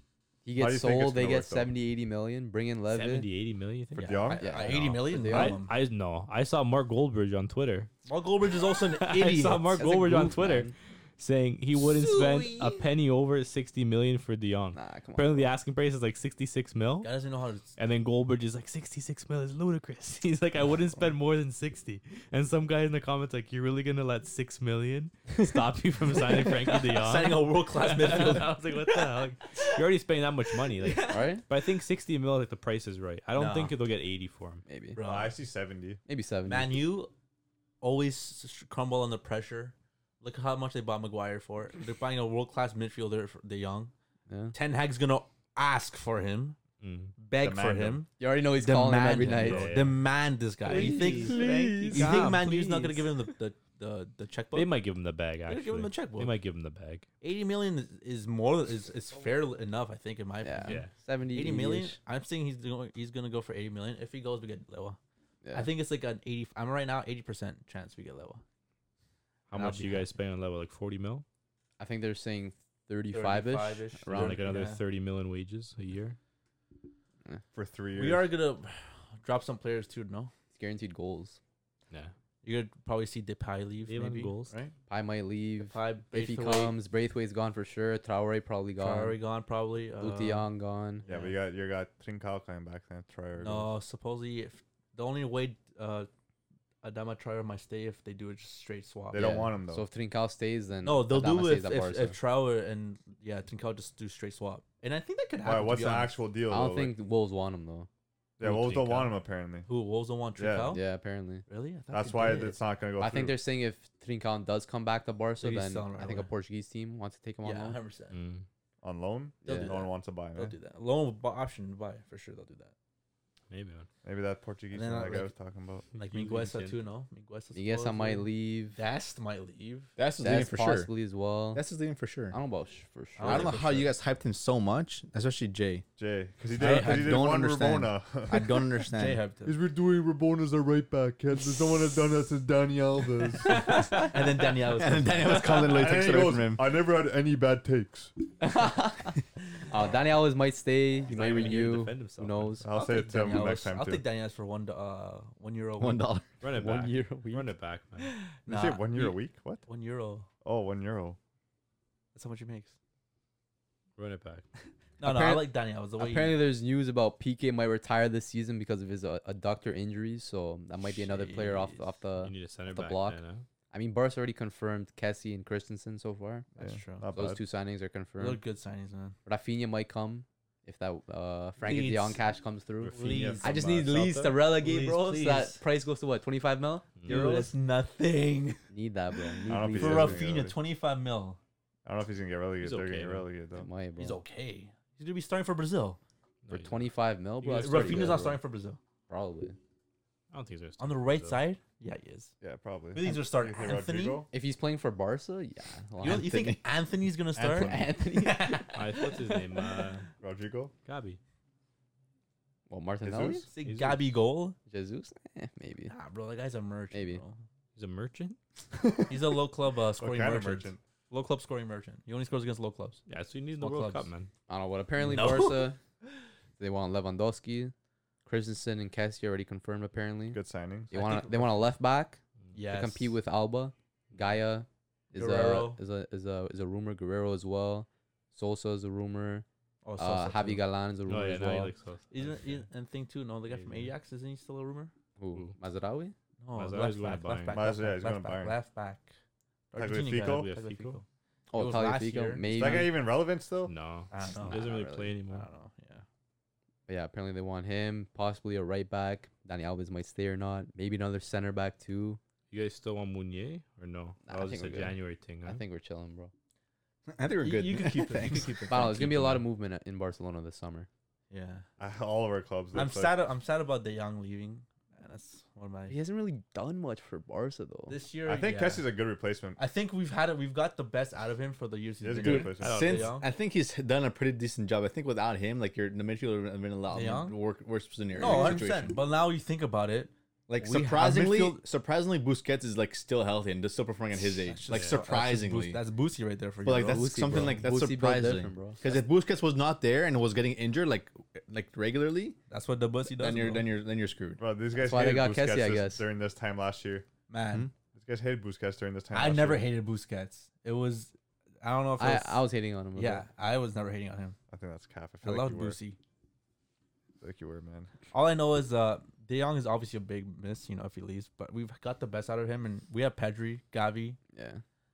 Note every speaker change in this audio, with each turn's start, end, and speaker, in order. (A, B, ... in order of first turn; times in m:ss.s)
0:00.4-0:03.3 A
0:00.6-0:01.7 B
0:02.9-0:07.9 C
0:03.9-0:04.7 B
0:04.0-0:05.7 D
0:04.4-0:05.6 A
0:08.0-0:10.0 D
0:08.7-0:17.1 C
0:09.8-0:10.7 A
0:11.9-0:12.8 D
0:14.7-0:15.5 A
0:17.0-0:17.7 D
0:17.8-0:34.6 C
0:26.4-0:29.8 D
0:30.7-0:31.3 D
0:31.1-0:31.4 A
0:33.3-0:33.8 D
0:34.6-0:35.0 A
0:35.0-0:35.4 D
0:35.0-0:36.0 B
0:36.1-0:36.8 A
0:36.4-0:37.1 D
0:37.8-0:43.9 D
0:44.3-0:44.6 A
0:44.5-0:46.6 D
0:46.8-0:47.1 C
0:47.2-0:54.8 D
0:47.4-0:48.0 B
0:48.2-0:49.7 A
0:49.3-0:50.0 C
0:50.6-0:53.0 C
0:50.7-0:52.5 A
0:54.5-0:57.1 C
0:55.5-0:56.3 D
0:57.2-1:05.0 D
1:00.4-1:02.0 A
1:00.6-1:00.9 C
1:05.4-1:05.7 A
1:05.5-1:08.4 D
1:09.5-1:11.2 C
1:09.5-1:10.1 D
1:11.8-1:14.4 A
1:13.1-1:14.8 D
1:14.1-1:16.2 C
1:17.5-1:18.3 B
1:17.9-1:20.3 D
1:20.5-1:21.4 A
1:22.4-1:24.7 D
1:23.8-1:24.5 C
1:24.9-1:29.2 A
1:25.6-1:26.8 D
1:28.8-1:30.5 D
1:30.0-1:31.0 A
1:31.0-1:31.4 D
1:31.0-1:33.7 B
1:33.4-1:36.1 D
1:36.8-1:39.5 D
1:39.1-1:39.8 B
1:39.1-1:42.2 A
1:40.8-1:46.2 D
1:45.4-1:46.9 B
1:46.5-1:47.9 A
1:48.4-1:49.7 B
1:48.4-1:49.1 C
1:49.6-1:50.8 D
1:50.4-1:50.8 B
1:50.7-1:51.4 A
1:51.5-1:52.6 D
1:51.9-1:53.4 B
1:53.0-1:57.8 A
1:55.4-1:56.3 D
1:57.4-1:58.1 D
1:58.1-1:58.4 C
1:58.8-2:00.5 B
1:59.4-1:59.7 A
1:59.4-2:02.7 D
2:03.5-2:03.9 C
2:04.0-2:05.8 B
2:04.7-2:05.3 D
2:05.9-2:06.8 C
2:06.0-2:09.9 D
2:07.5-2:08.8 A
2:10.0-2:10.9 E
2:10.2-2:11.7 A
2:11.5-2:12.4 E
2:12.3-2:13.6 A
2:13.2-2:14.0 D
2:13.2-2:15.8 E
2:16.0-2:18.8 B
2:16.6-2:17.2 D
2:16.6-2:19.2 E
2:18.9-2:19.6 D
2:19.4-2:23.8 B
2:23.5-2:25.8 D
2:24.6-2:26.6 E
2:25.5-2:28.1 B
2:28.4-2:32.8 A
2:31.1-2:32.6 C
2:32.6-2:34.0 B
2:32.7-2:36.1 D
2:35.8-2:36.2 E
2:36.4-2:38.1 C
2:36.4-2:37.5 A
2:38.0-2:40.3 D
2:38.5-2:39.6 B
2:40.4-2:41.2 B
2:42.1-2:42.7 D
2:44.0-2:44.4 C
2:45.0-2:46.4 D
2:45.0-2:45.4 E
2:46.0-2:56.5 A
2:50.8-2:51.9 D
2:52.2-2:53.4 C
2:56.6-2:57.1 D
2:56.6-2:57.4 B
2:57.1-2:58.4 A
2:58.2-2:59.2 D
2:59.2-3:06.9 A
3:01.6-3:02.2 D
3:02.8-3:04.4 C
3:02.9-3:05.6 D
3:07.0-3:07.5 C
3:07.0-3:08.6 D
3:08.7-3:10.3 A
3:09.5-3:10.6 B
3:09.8-3:11.4 D
3:11.8-3:13.7 B
3:12.6-3:13.2 C
3:13.5-3:14.2 A
3:14.0-3:16.0 D
3:16.4-3:16.9 C
3:16.5-3:18.4 A
3:17.4-3:18.8 D
3:17.6-3:18.2 C
3:19.1-3:19.6 A
3:20.3-3:21.4 C
3:20.8-3:22.3 D
3:22.4-3:24.3 B
3:22.9-3:24.3 D
3:24.3-3:26.4 A
3:26.0-3:29.2 D
3:26.1-3:26.6 E
3:27.4-3:27.9 B
3:27.5-3:28.8 A
3:28.7-3:30.0 C
3:30.2-3:30.7 B
3:30.8-3:31.2 C
3:32.7-3:33.5 A
3:33.0-3:33.5 B
3:33.5-3:34.6 D
3:33.6-3:34.1 C
3:34.6-3:35.9 A
3:35.9-3:37.4 D
3:36.9-3:37.2 A
3:37.7-3:38.4 C
3:38.7-3:39.4 B
3:39.1-3:43.0 D
3:39.9-3:40.8 B
3:43.1-3:44.3 C
3:43.6-3:44.1 D
3:44.5-3:45.8 A
3:45.0-3:45.7 D
3:46.6-3:47.7 A
3:48.2-3:50.4 A
3:50.3-3:50.9 B
3:50.9-3:51.7 D
3:50.9-3:59.4 A
3:52.5-3:53.1 D
3:55.2-3:55.8 D
3:59.8-4:00.6 D
4:00.0-4:01.7 A
4:01.0-4:02.6 C
4:02.1-4:04.9 D
4:03.5-4:03.9 C
4:05.2-4:06.1 A
4:06.4-4:09.1 D
4:06.6-4:07.6 C
4:07.5-4:08.6 B
4:09.7-4:12.9 D
4:09.7-4:10.5 B
4:10.2-4:11.0 C
4:11.5-4:13.0 A
4:12.5-4:13.7 B
4:13.6-4:15.5 C
4:14.1-4:16.0 D
4:14.4-4:15.2 A
4:16.9-4:22.2 A
4:22.5-4:25.6 C
4:24.2-4:26.3 A
4:27.1-4:28.9 E
4:27.4-4:29.0 D
4:28.7-4:30.9 A
4:28.9-4:29.4 C
4:31.3-4:31.6 D
4:31.8-4:33.2 B
4:32.7-4:36.0 D
4:35.9-4:38.0 A
4:37.9-4:38.9 D
4:38.2-4:39.6 B
4:39.6-4:43.3 D
4:42.0-4:42.9 B
4:42.2-4:49.0 E
4:42.6-4:43.1 C
4:46.9-4:47.4 D
4:48.1-4:51.6 D
4:50.5-4:55.8 E
4:54.1-4:57.6 D
4:54.7-4:55.0 C
4:56.6-5:02.4 E
4:56.8-4:58.8 A
5:02.5-5:03.7 D
5:03.0-5:04.4 E
5:04.4-5:07.1 B
5:04.7-5:06.0 A
5:07.3-5:07.7 D
5:07.9-5:09.7 B
5:09.1-5:12.4 D
5:12.0-5:13.2 A
5:12.9-5:14.4 D
5:14.5-5:15.8 B
5:15.2-5:16.0 D
5:17.2-5:17.9 B
5:18.1-5:24.2 D
5:24.3-5:24.6 A